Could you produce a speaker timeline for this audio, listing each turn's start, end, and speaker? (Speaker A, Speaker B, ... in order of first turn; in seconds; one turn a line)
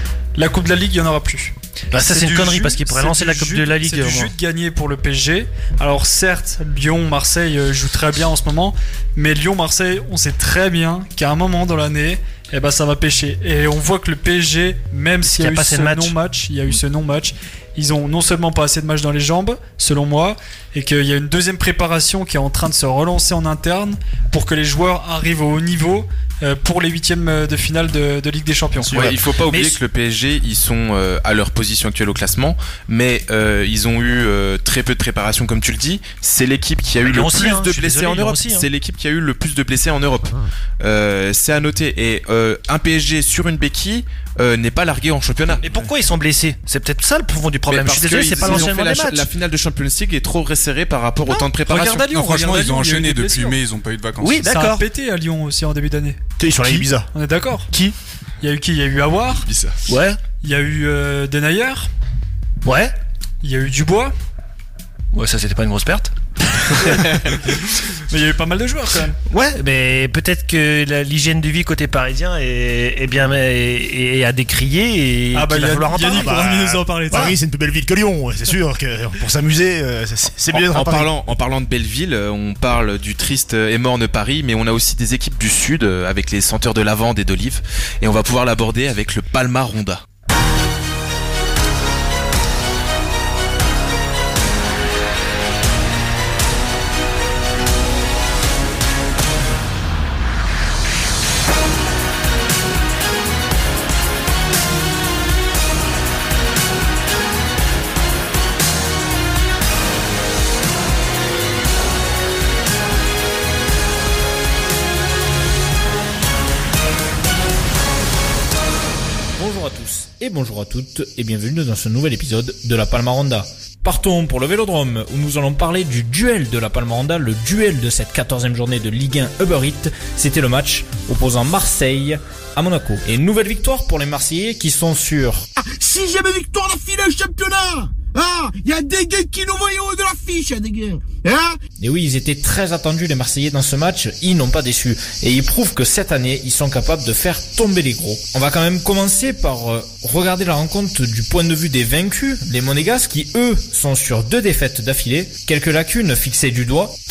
Speaker A: 0.3-29.1
Speaker B: 1.9-4.3
Speaker B: 15.2-16.1
Speaker B: 28.8-29.8
Speaker C: 28.9-45.6
Speaker B: 37.0-38.7
Speaker B: 45.6-49.3
Speaker C: 47.7-52.1
Speaker A: 51.4-53.6
Speaker D: 51.7-54.4
Speaker B: 54.2-54.8
Speaker A: 54.3-56.2
Speaker E: 56.4-57.1
Speaker A: 57.1-57.7
Speaker A: 58.4-59.5
Speaker C: 59.3-59.8
Speaker B: 59.9-60.2
Speaker A: 60.3-61.9
Speaker B: 62.6-62.9
Speaker A: 63.4-64.1
Speaker B: 65.1-66.1
Speaker A: 68.1-69.2
Speaker B: 69.3-76.4
Speaker A: 75.3-77.3
Speaker E: 76.1-81.1
Speaker C: 80.5-90.0
Speaker F: 119.3-135.4
Speaker G: 135.6-141.6
Speaker F: 141.8-156.9